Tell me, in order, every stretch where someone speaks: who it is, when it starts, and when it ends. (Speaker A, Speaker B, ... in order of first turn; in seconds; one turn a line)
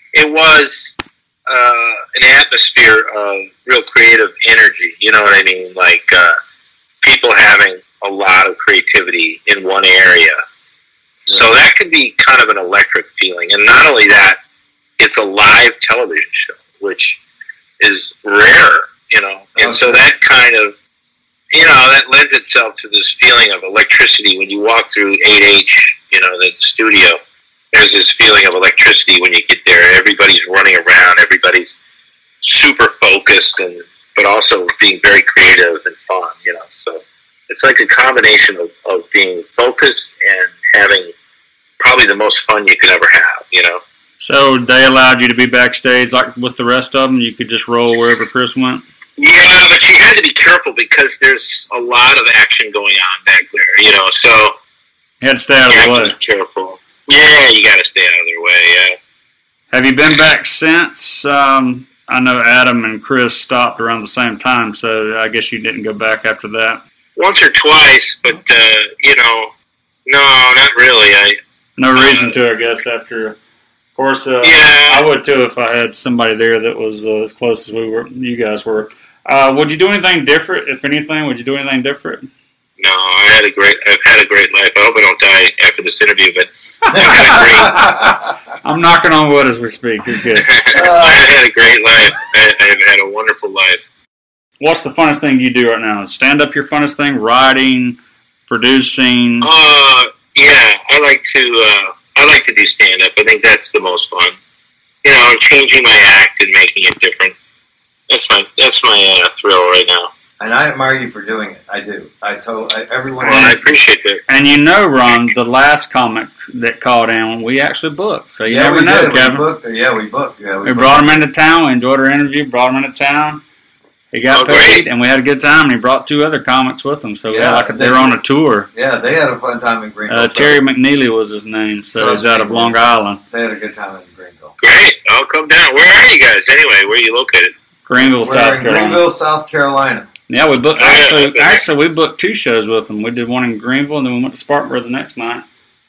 Speaker A: 0.1-0.9
Speaker A: 1.5-6.3
Speaker A: 7.0-10.3
Speaker B: 11.2-11.5
Speaker A: 11.3-14.4
Speaker A: 15.0-17.2
Speaker A: 17.8-20.7
Speaker B: 19.6-20.0
Speaker A: 21.5-27.2
Speaker A: 27.7-31.8
Speaker A: 32.4-41.1
Speaker A: 41.8-43.8
Speaker C: 44.2-48.8
Speaker A: 49.2-54.5
Speaker C: 55.2-56.1
Speaker A: 55.7-58.9
Speaker C: 59.7-66.8
Speaker A: 67.2-69.5
Speaker A: 70.1-71.3
Speaker C: 71.8-73.4
Speaker A: 71.9-72.4
Speaker C: 74.0-82.2
Speaker A: 74.4-75.1
Speaker A: 82.8-87.8
Speaker B: 86.9-88.2
Speaker C: 87.2-88.1
Speaker C: 88.6-90.5
Speaker A: 90.4-93.8
Speaker B: 90.7-91.3
Speaker C: 94.6-99.5
Speaker A: 99.4-104.3
Speaker A: 105.0-107.3
Speaker A: 108.1-110.1
Speaker B: 110.4-113.7
Speaker A: 113.2-114.2
Speaker C: 114.3-119.5
Speaker B: 118.5-121.2
Speaker C: 120.6-123.4
Speaker C: 124.1-128.7
Speaker A: 124.3-124.8
Speaker B: 127.3-128.2
Speaker B: 128.7-130.6
Speaker C: 130.1-133.2
Speaker B: 131.9-134.6
Speaker A: 134.6-137.5
Speaker C: 137.8-139.0
Speaker B: 138.0-140.1
Speaker C: 140.3-145.4
Speaker A: 140.8-141.6